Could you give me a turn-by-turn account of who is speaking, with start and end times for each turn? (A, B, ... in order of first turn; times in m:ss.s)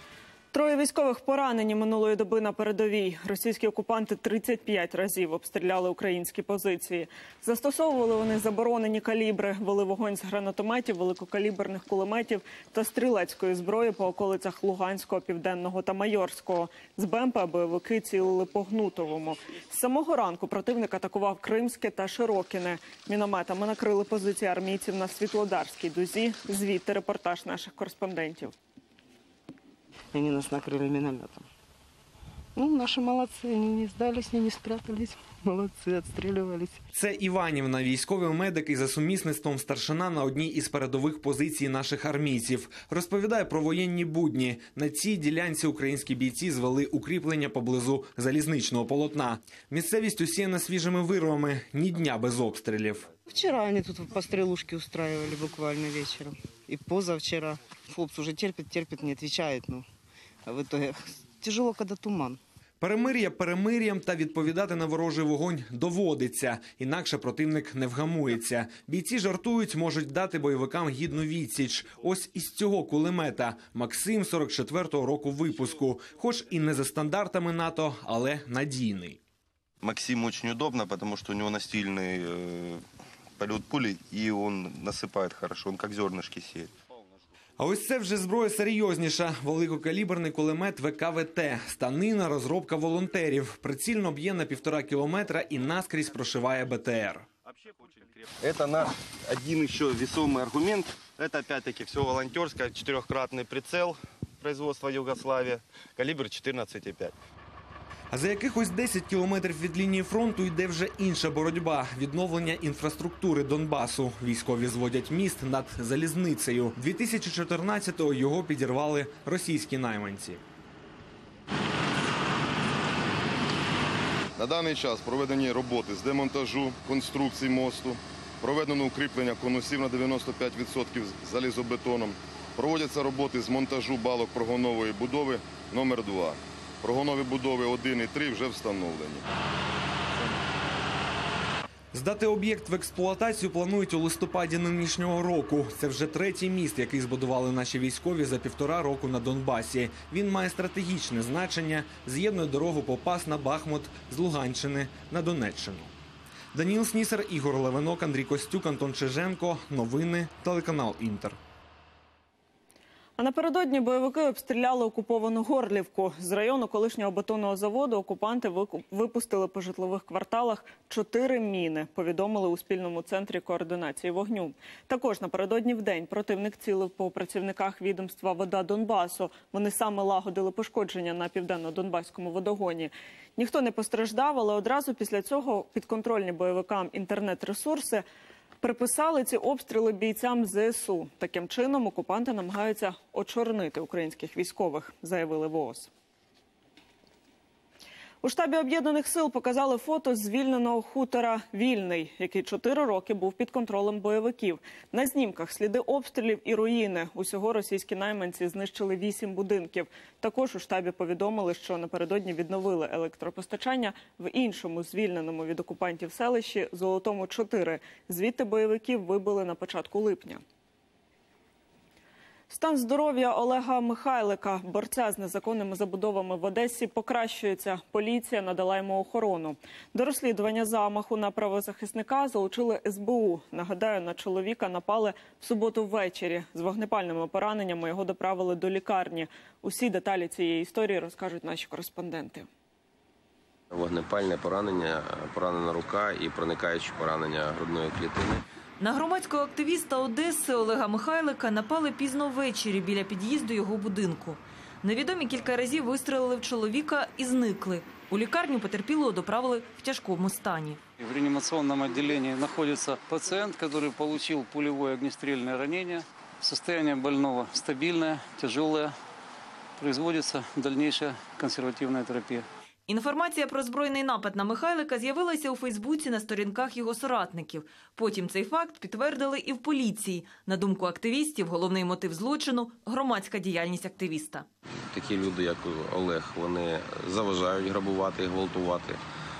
0:00.5-0:28.5 A
0:30.1-0:31.4 B
0:32.6-0:36.8 B
0:36.9-0:53.1 C
0:53.3-0:59.9 B
1:00.5-1:02.4 B
1:02.8-1:19.2 C
1:19.8-1:22.8 D
1:23.4-1:26.7 D
1:27.6-1:37.3 C
1:38.4-1:47.1 D
1:48.1-2:00.4 C
2:04.4-2:19.2 E
2:21.9-2:35.9 C
2:36.5-2:41.4 C
2:43.2-3:08.0 A
3:08.6-3:15.9 A
3:18.2-3:40.4 A
3:42.5-4:02.5 A
4:03.7-4:08.4 F
4:08.8-4:20.8 G
4:21.0-4:29.0 H
4:29.8-4:32.4 H
4:32.9-4:44.5 G
4:44.9-4:49.0 F